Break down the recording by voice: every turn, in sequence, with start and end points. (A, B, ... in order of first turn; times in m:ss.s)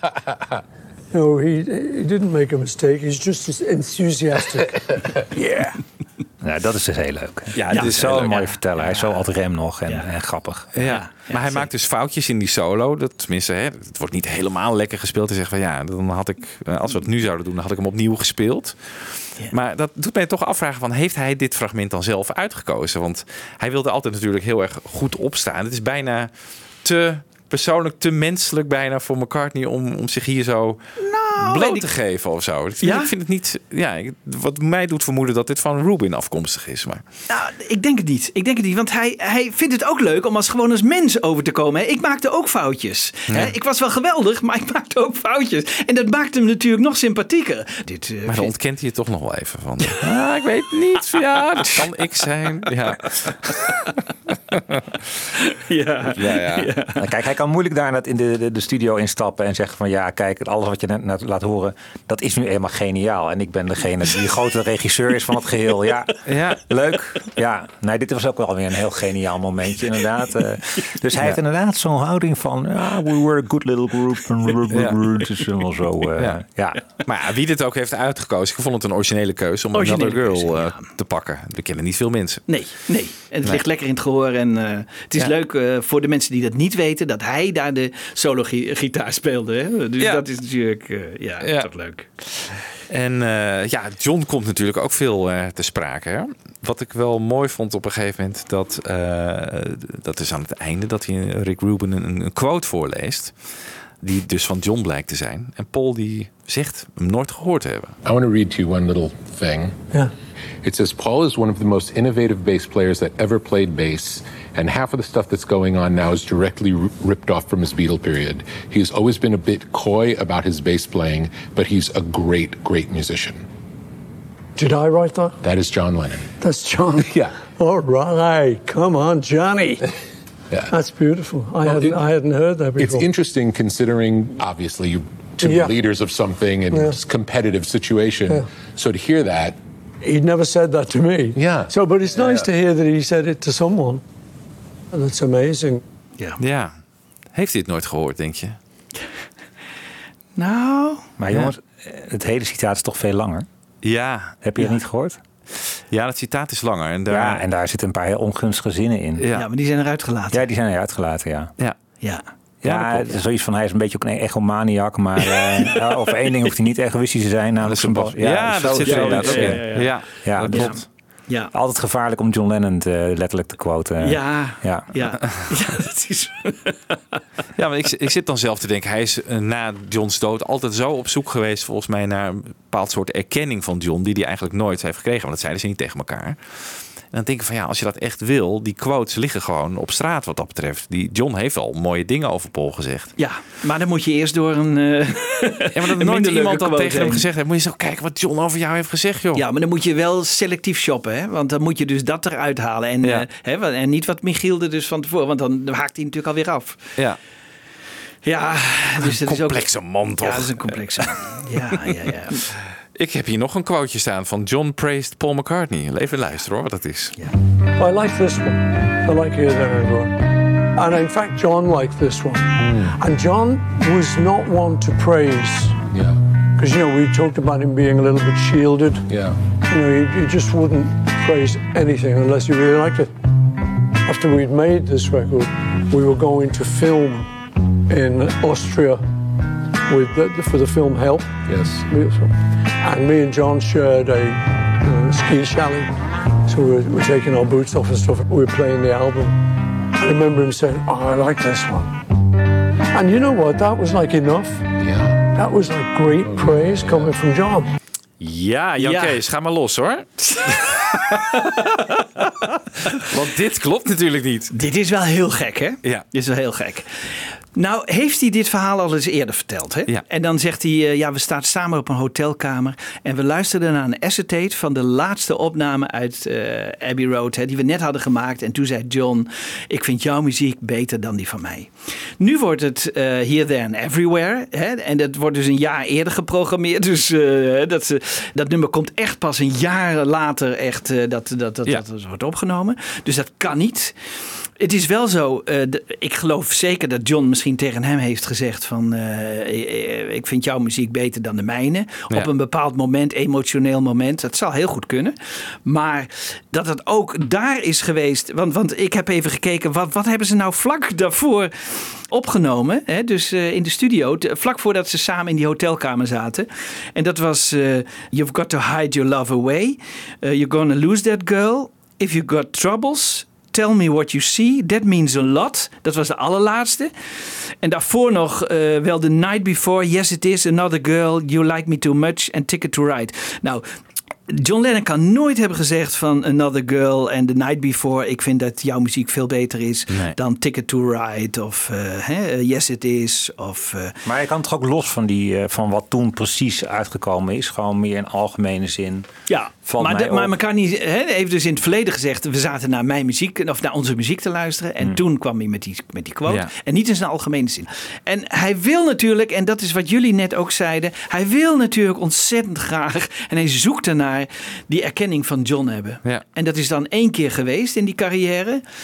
0:01.1-0:05.8 A
0:06.4-0:10.8 B
0:07.5-0:08.4 C
0:07.7-0:09.1 D
0:10.7-0:37.0 C
0:10.8-0:11.7 D
0:31.0-0:31.9 D
0:32.8-0:33.1 D
0:37.3-0:48.5 D
0:48.3-0:53.5 C
0:53.2-0:53.9 D
0:54.5-0:54.8 C
0:55.4-0:57.0 D
0:56.0-0:56.7 C
0:57.0-1:16.8 B
1:06.2-1:06.6 C
1:14.7-1:15.0 C
1:17.0-1:22.5 C
1:19.7-1:20.9 D
1:22.5-1:32.1 D
1:31.4-1:31.7 C
1:32.9-1:43.4 C
1:44.0-1:48.0 C
1:48.0-1:49.8 E
1:50.6-2:03.4 E
2:04.6-2:05.4 A
2:05.4-2:06.3 E
2:06.4-2:09.9 A
2:07.0-2:07.4 E
2:10.7-2:13.1 A
2:11.6-2:12.0 E
2:12.8-2:19.6 E
2:15.4-2:15.7 A
2:16.7-2:17.0 A
2:20.0-2:24.0 A
2:21.3-2:22.5 E
2:24.9-2:25.8 A
2:26.4-2:26.8 C
2:27.3-2:28.6 C
2:30.4-2:31.0 D
2:31.2-2:33.4 B
2:33.8-2:34.4 C
2:34.4-2:35.2 B
2:35.9-2:37.4 C
2:37.1-2:39.2 B
2:39.2-2:39.5 C
2:39.3-2:40.4 D
2:40.3-2:41.5 B
2:42.6-2:43.1 C
2:42.6-2:50.8 B
2:47.6-2:50.8 C
2:48.8-2:51.5 D
2:51.5-2:54.9 B
2:54.0-2:57.2 D
2:57.6-3:13.1 C
3:13.2-3:17.2 D
3:15.7-3:19.4 C
3:19.3-3:26.8 D
3:28.2-3:32.4 D
3:29.0-3:31.6 C
3:32.4-3:37.1 C
3:37.8-3:45.8 A
3:42.6-3:42.9 E
3:45.9-3:46.2 E
3:46.6-3:49.0 A
3:49.1-3:49.4 E
3:49.6-3:53.1 A
3:54.0-3:57.3 A
3:57.9-3:59.0 A
3:59.9-4:01.3 A
4:01.5-4:01.8 E
4:01.9-4:05.9 A
4:06.5-4:09.4 A
4:10.0-4:11.9 A
4:12.9-4:14.7 A
4:14.8-4:15.2 E
4:15.2-4:17.7 A
4:16.2-4:17.1 E
4:18.2-4:21.4 C
4:18.8-4:19.2 D
4:20.3-4:21.8 D
4:22.9-4:24.5 C
4:24.5-4:54.0 D
4:54.6-5:26.9 D
5:27.6-5:33.6 D
5:34.3-5:44.0 D
5:39.9-5:40.1 C
5:44.0-5:49.1 B
5:49.3-6:08.6 D
5:49.6-5:50.3 B